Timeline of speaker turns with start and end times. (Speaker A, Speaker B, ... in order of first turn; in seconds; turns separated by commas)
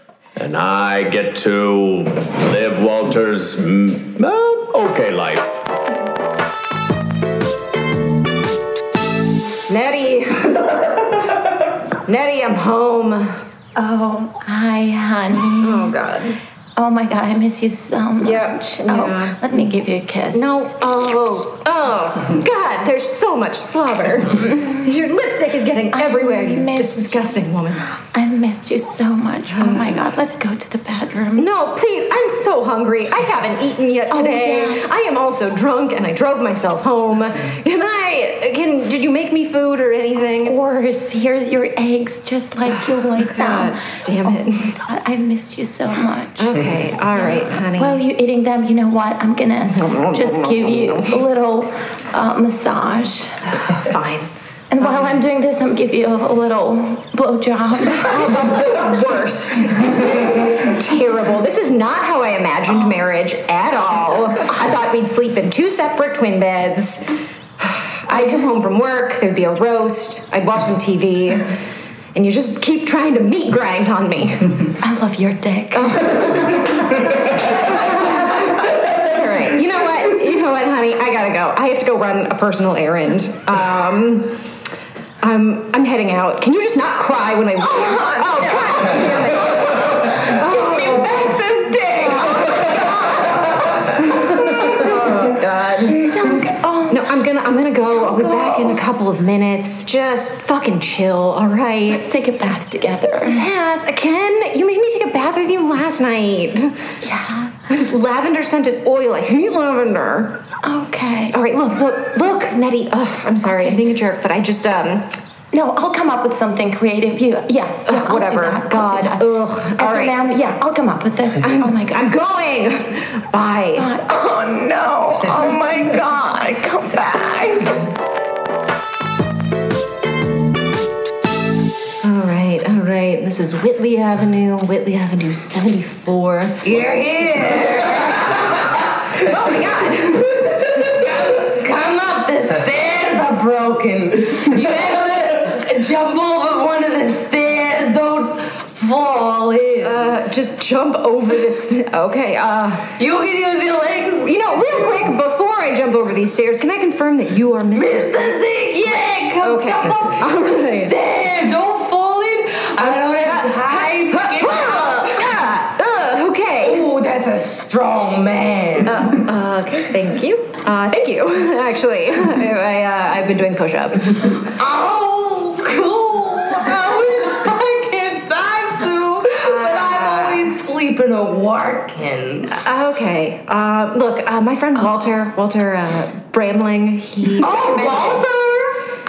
Speaker A: 0.3-5.6, Speaker B: 9.7-10.6, Speaker B: 12.1-13.4, Speaker C: 13.8-15.9, Speaker B: 15.6-16.4, Speaker C: 16.8-20.7, Speaker B: 18.2-19.7, Speaker B: 20.3-27.9, Speaker C: 25.9-31.5, Speaker B: 29.5-30.0, Speaker B: 31.3-40.5, Speaker C: 34.1-34.9, Speaker C: 40.4-53.4, Speaker B: 42.7-44.8, Speaker B: 46.4-48.0, Speaker B: 49.7-51.2, Speaker B: 53.7-55.2, Speaker C: 54.7-58.6, Speaker B: 57.9-67.0, Speaker B: 67.6-71.5, Speaker B: 72.1-74.7, Speaker C: 74.8-76.6, Speaker B: 75.7-84.3, Speaker B: 85.2-91.3, Speaker C: 88.2-89.2, Speaker D: 88.7-93.2, Speaker B: 94.1-102.0, Speaker C: 95.8-98.8, Speaker C: 101.9-103.5, Speaker B: 103.3-106.7, Speaker C: 107.0-107.5, Speaker B: 107.7-110.4, Speaker C: 110.6-111.4, Speaker B: 111.3-115.1, Speaker C: 113.4-113.8, Speaker C: 115.5-122.0, Speaker B: 117.8-120.2, Speaker B: 121.4-123.9, Speaker C: 123.8-127.8, Speaker B: 132.0-136.7, Speaker D: 136.6-138.6, Speaker B: 139.2-140.4, Speaker D: 140.8-150.2, Speaker B: 149.8-152.9, Speaker D: 153.0-154.8, Speaker B: 154.2-158.3, Speaker D: 157.7-165.3, Speaker B: 159.4-160.9, Speaker B: 162.8-166.8, Speaker D: 166.6-169.2, Speaker B: 168.8-174.3, Speaker D: 174.5-182.5, Speaker B: 179.4-180.5, Speaker B: 182.5-188.2, Speaker D: 187.3-188.7